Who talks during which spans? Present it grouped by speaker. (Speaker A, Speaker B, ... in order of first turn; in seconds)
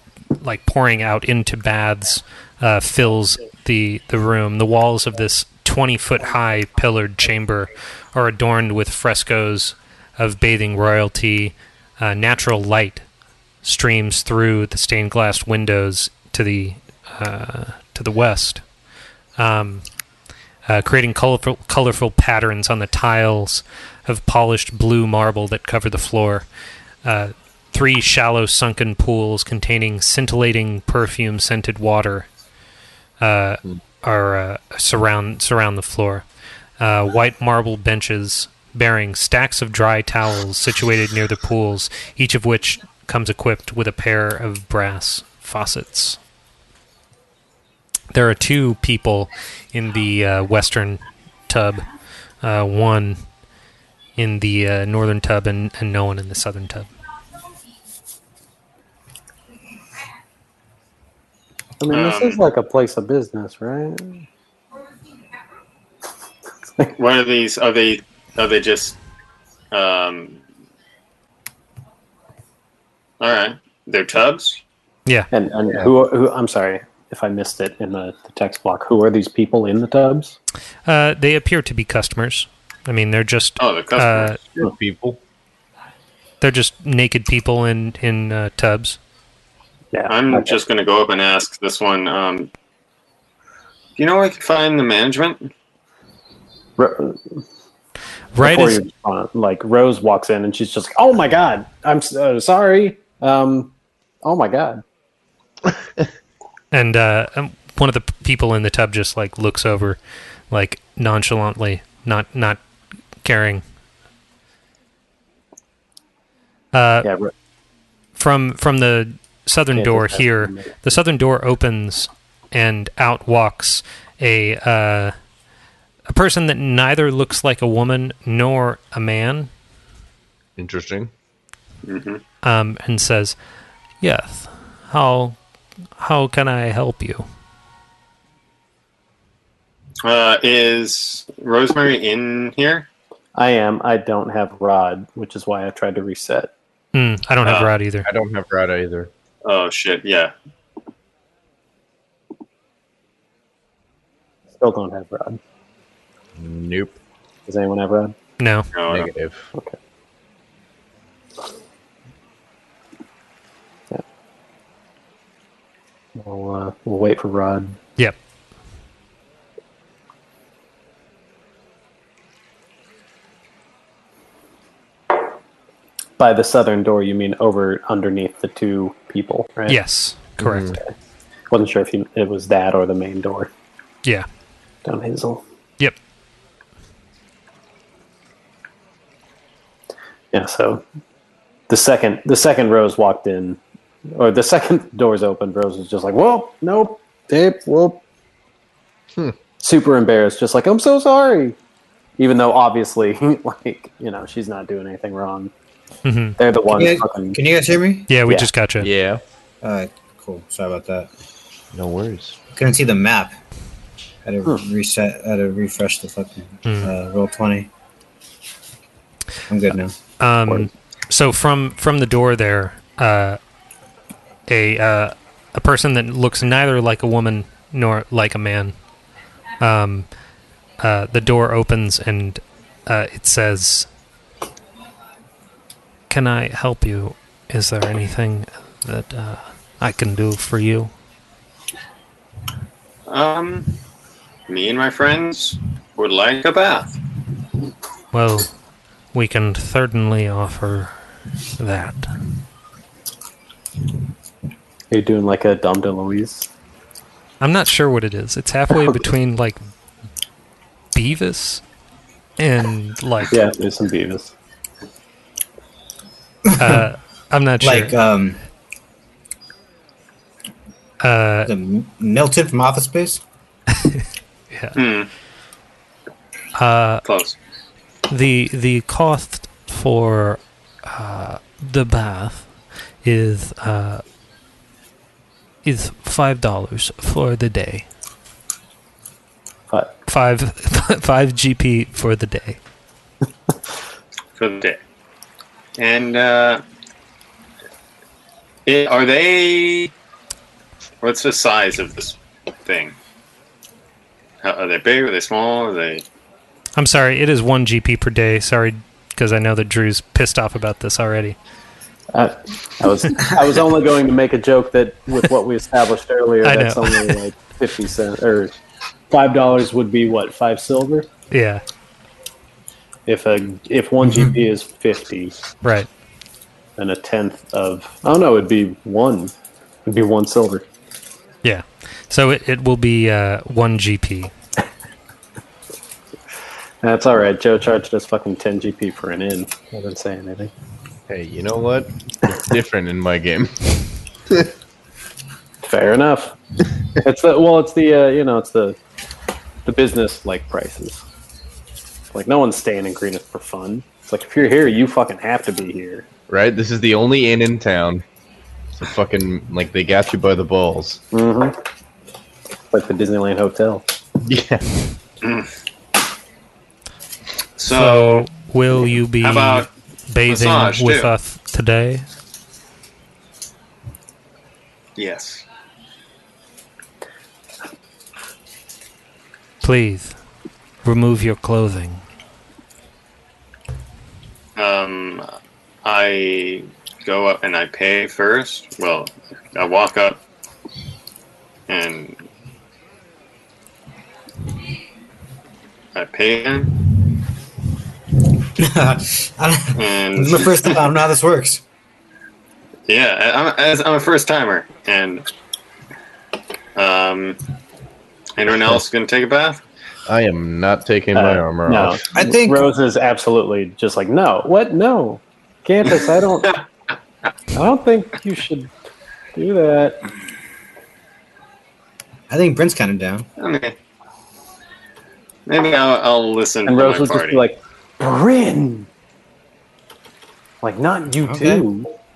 Speaker A: 0.3-13.0, 13.6-18.6, 19.4-19.8, 20.7-26.4, 27.0-32.3, 33.2-36.2, 36.8-46.2, 48.1-51.8, 52.4-53.2, 54.2-56.9, 80.8-84.4, 86.4-89.0, 98.3-98.8, 106.7-110.0, 110.5-112.6, 113.2-113.6, 116.7-117.1, 118.2-125.1, 126.1-129.5, 132.4-133.3, 134.0-135.4, 136.0-137.2, 146.9-148.1, 158.4-158.7, 179.7-180.7, 206.0-206.4, 208.1-208.9, 216.6-216.9, 220.2-223.4, 224.5-228.7, 229.6-230.1, 230.8-233.9, 236.1-240.9, 248.1-248.5, 249.1-251.0, 251.6-252.1, 257.4-259.6, 260.9-261.6, 262.4-263.3, 266.6-267.9, 271.0-271.5, 274.5-274.8, 276.6-277.0, 278.1-282.5, 283.0-284.0, 285.6-287.9, 290.1-292.6, 306.8-311.4, 316.4-317.2, 321.3-321.6, 325.6-325.9, 331.4-334.3, 367.7-372.1, 379.6-380.1, 380.8-382.0
Speaker B: 61.8-64.2, 75.3-80.3, 89.9-90.6, 96.8-97.4, 98.4-103.7, 104.2-104.8, 117.0-117.3, 119.7-120.8, 143.3-146.5, 154.6-155.4, 157.5-158.1, 166.2-167.8, 176.2-179.8, 181.5-183.5, 184.8-185.4, 190.3-190.8, 191.7-193.6, 194.1-198.0, 199.6-201.6, 202.2-205.5, 206.4-207.4, 254.9-256.5, 263.3-264.3, 312.1-318.5, 319.1-321.1, 323.1-325.4, 326.8-329.3, 329.9-330.6, 336.8-340.5, 345.6-346.4, 347.0-348.8, 349.6-351.0, 352.1-356.1, 361.1-361.6, 362.7-363.8, 411.1-416.6, 417.5-418.7, 419.3-420.0, 426.6-428.9, 430.6-431.9
Speaker C: 61.9-62.4, 66.9-69.0, 69.7-70.4, 73.2-74.6, 83.6-84.3, 90.1-92.5, 94.0-95.5, 131.8-132.2, 140.0-142.9, 147.4-147.7, 149.4-150.3, 158.7-159.1, 243.1-243.7, 244.5-247.0, 274.7-275.1, 277.0-277.4, 294.4-294.8, 295.8-296.6, 298.6-299.9, 301.0-302.9, 304.4-306.0, 365.2-365.5, 367.6-368.2, 369.2-369.7, 370.3-371.1, 375.0-375.4, 384.6-385.3, 385.8-390.2, 391.7-392.2, 395.9-396.8, 399.7-400.8, 402.9-405.3, 406.8-407.4, 408.4-409.6, 423.4-423.7, 425.5-427.4
Speaker D: 84.5-85.2, 130.6-131.1, 148.0-149.1, 156.3-156.9, 158.9-159.5, 180.4-180.8, 208.8-209.2, 211.7-212.4, 341.1-344.5, 356.3-358.0, 358.8-361.0, 364.2-364.6, 410.1-412.0
Speaker E: 206.7-208.1, 209.6-211.1, 212.5-213.3, 214.2-217.7, 219.5-219.9, 266.5-266.8, 267.6-268.4, 271.5-273.2, 398.6-401.6, 412.1-412.7, 422.3-423.3, 431.2-431.6